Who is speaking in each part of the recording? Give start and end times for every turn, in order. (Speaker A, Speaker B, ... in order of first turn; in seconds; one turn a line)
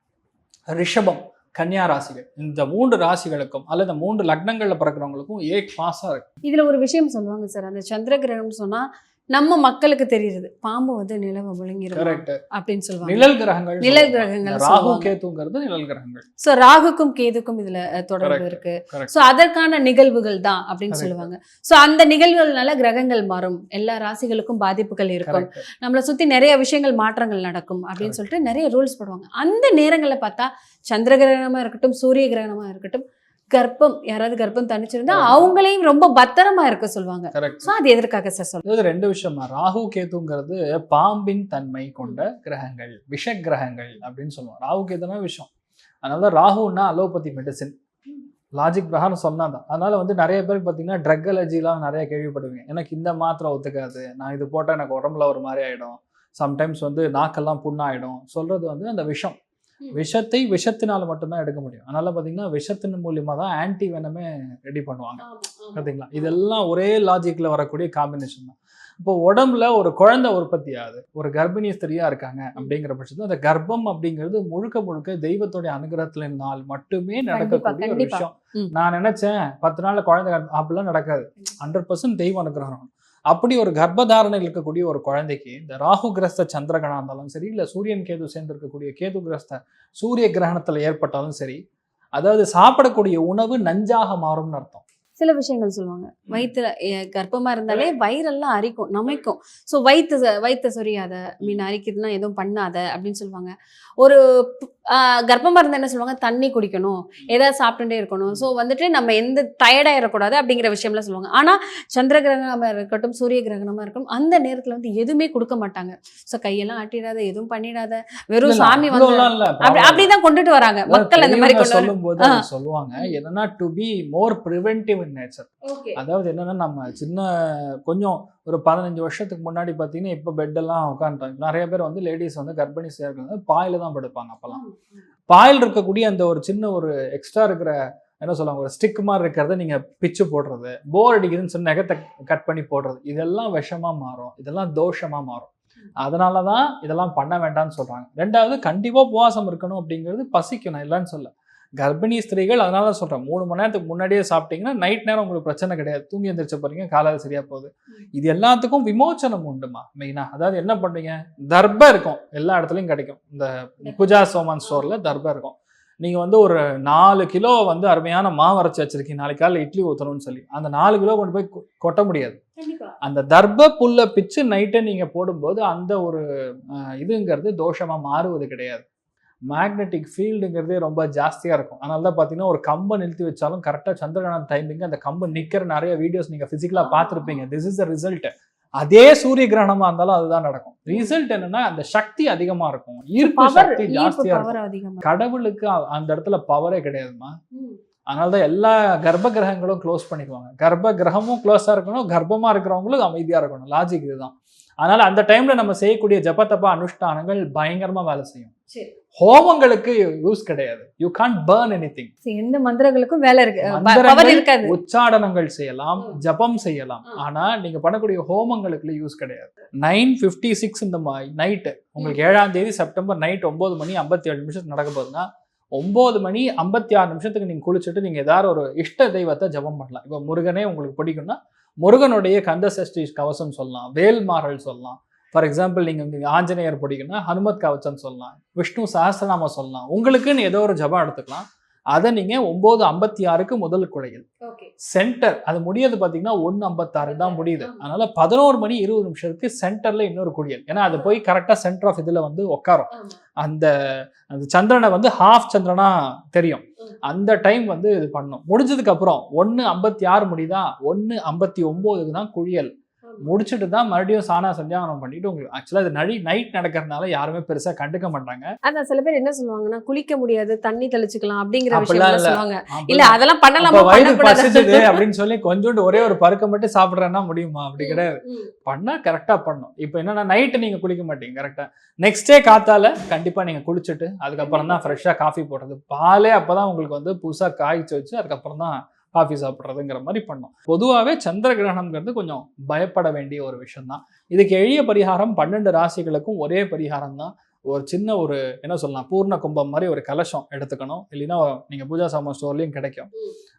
Speaker A: 0.7-6.3
Speaker B: 6.4-15.1
Speaker A: 11.9-12.4
Speaker A: 13.0-16.2
Speaker B: 16.4-38.6
Speaker A: 18.2-19.2
Speaker A: 20.9-21.3
Speaker A: 25.2-25.6
Speaker A: 35.1-35.5
Speaker A: 37.3-37.7
Speaker A: 38.6-45.5
Speaker A: 46.0-47.7
Speaker A: 48.6-59.3
Speaker A: 59.9-65.2
Speaker B: 65.2-66.3
Speaker A: 65.7-91.6
Speaker B: 77.3-78.7
Speaker A: 92.2-94.8
Speaker B: 95.2-122.4
Speaker A: 118.4-120.1
Speaker A: 120.9-134.6
Speaker B: 125.7-126.0
Speaker B: 134.5-134.8
Speaker A: 135.3-145.5
Speaker A: 146.0-172.4
Speaker B: 163.8-164.9
Speaker B: 172.6-172.9
Speaker A: 173.0-178.8
Speaker A: 179.5-197.3
Speaker B: 186.8-187.4
Speaker B: 190.9-191.1
Speaker B: 193.2-195.0
Speaker A: 198.1-208.5
Speaker A: 209.2-212.1
Speaker B: 212.2-214.7
Speaker A: 213.7-225.2
Speaker A: 225.8-244.2
Speaker B: 244.4-244.7
Speaker A: 244.9-252.9
Speaker B: 247.0-247.8
Speaker B: 250.9-251.2
Speaker B: 252.9-253.2
Speaker A: 253.4-253.7
Speaker A: 254.3-262.7
Speaker A: 263.2-268.5
Speaker B: 268.6-275.0
Speaker A: 271.7-303.1
Speaker B: 277.8-278.5
Speaker B: 284.4-285.0